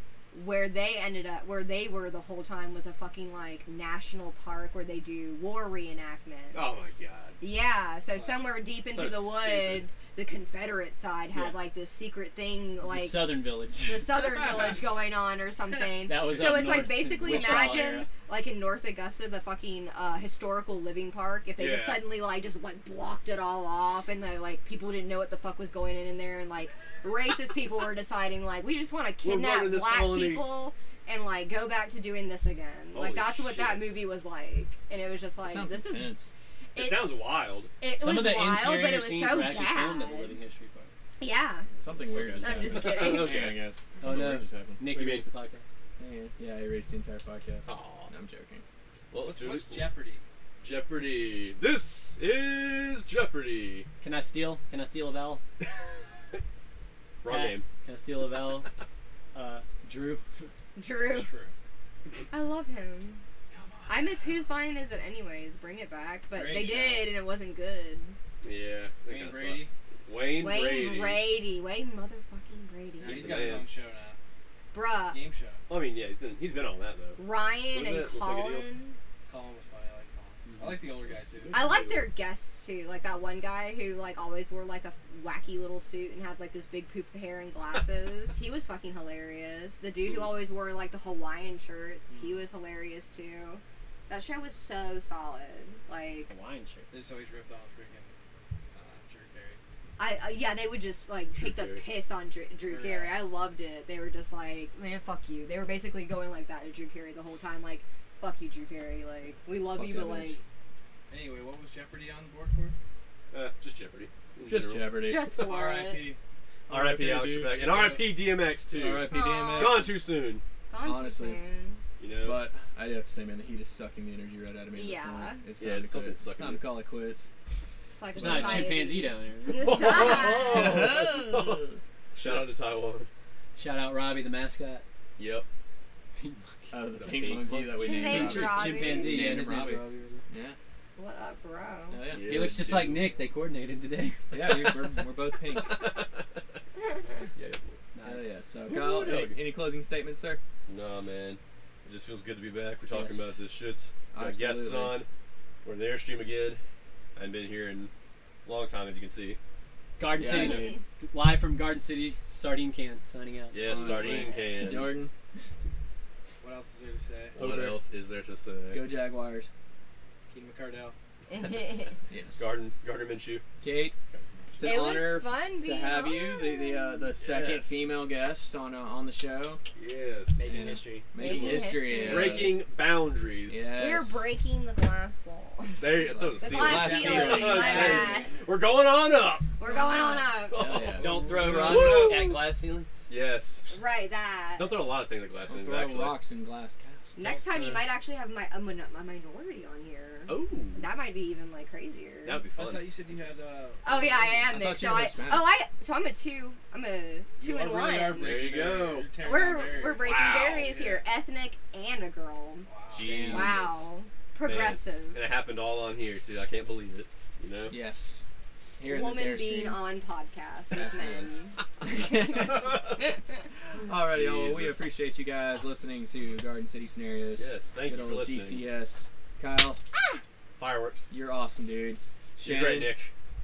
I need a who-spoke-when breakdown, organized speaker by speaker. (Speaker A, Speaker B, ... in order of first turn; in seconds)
Speaker A: 0.3-6.9, 7.4-36.1, 36.8-37.1, 37.8-40.4, 41.2-41.7, 42.4-43.5, 60.8-61.3, 62.3-63.2, 63.9-68.2, 70.4-73.6, 74.7-75.2, 77.2-79.0, 81.5-96.3, 100.0-110.4, 115.0-116.1, 119.1-119.9, 120.7-121.8, 124.8-125.4, 128.0-130.6, 137.8-139.2, 141.0-142.0, 160.4-160.8, 163.7-164.6, 171.3-171.9, 174.6-177.1, 181.2-182.6, 183.7-188.3, 189.6-190.7, 193.7-194.8, 197.2-202.4, 203.8-208.3, 209.2-212.7, 213.2-215.2, 218.8-223.1
Speaker B: 6.5-7.4, 8.9-9.9, 21.6-22.0, 29.2-30.5, 32.9-34.0, 36.8-37.7, 42.7-43.6, 44.9-45.2, 47.6-48.1, 49.1-49.9, 50.6-53.9, 57.2-57.6, 68.4-71.2, 73.0-73.7, 75.7-77.2, 77.7-78.7, 81.1-82.1, 101.3-101.9, 113.3-114.9, 116.7-120.4, 122.0-122.4, 125.6-126.6, 129.5-133.1, 135.2-135.5, 137.0-137.8, 142.1-143.0, 145.5-146.2, 147.4-147.8, 148.7-149.4, 150.7-155.1, 155.6-156.6, 157.2-157.9, 158.4-159.4, 163.5-164.9, 167.3-168.9, 172.4-173.4, 177.2-177.9, 179.8-180.4, 181.5-183.7, 185.8-192.2, 193.1-193.7, 194.6-196.2, 200.3-200.9, 202.2-203.0, 208.1-209.1, 210.0-211.0, 212.9-213.9, 214.4-217.8, 224.1-224.9, 227.4-228.6, 230.6-231.1, 232.4-233.1
Speaker C: 8.1-8.6, 14.3-14.8, 49.3-50.2, 61.0-61.5, 63.5-64.5, 66.3-67.2, 69.1-69.7, 73.0-74.2, 75.1-75.6, 79.3-81.8, 92.1-92.4, 96.9-98.1, 98.7-99.6, 102.7-103.3, 111.1-112.8, 115.4-116.2, 166.4-167.4, 170.3-170.9, 186.6-187.8, 202.5-204.6, 207.4-210.2, 212.7-213.5
Speaker D: 12.8-14.2, 16.0-18.1, 37.9-40.9, 41.7-42.9, 44.0-45.6, 54.0-55.4, 57.3-58.7, 59.3-60.5, 80.5-80.8, 96.3-96.9, 128.2-129.9, 133.6-134.8, 136.2-136.7, 137.8-140.3, 142.2-144.2, 147.9-148.4, 160.0-163.6, 167.4-167.7, 180.3-181.1, 191.0-192.9
Speaker E: 17.3-17.6, 35.4-36.3, 41.8-44.8, 46.0-48.6, 109.8-110.4, 114.5-115.3, 116.7-117.8, 118.8-119.9, 120.8-121.4, 122.2-127.3, 128.2-128.8, 130.4-131.8, 136.7-140.6, 141.9-142.6, 144.3-145.8, 148.0-150.4, 154.1-155.0, 160.2-160.8, 163.7-165.1, 167.4-167.8, 168.7-169.5, 172.1-172.4, 173.6-173.9, 174.5-179.6, 180.5-182.6, 183.5-184.3, 185.8-188.2, 190.5-192.2, 195.5-197.2, 204.5-205.5, 213.0-213.5, 217.7-218.2, 218.8-219.8, 220.8-222.8, 223.7-229.8, 231.1-232.9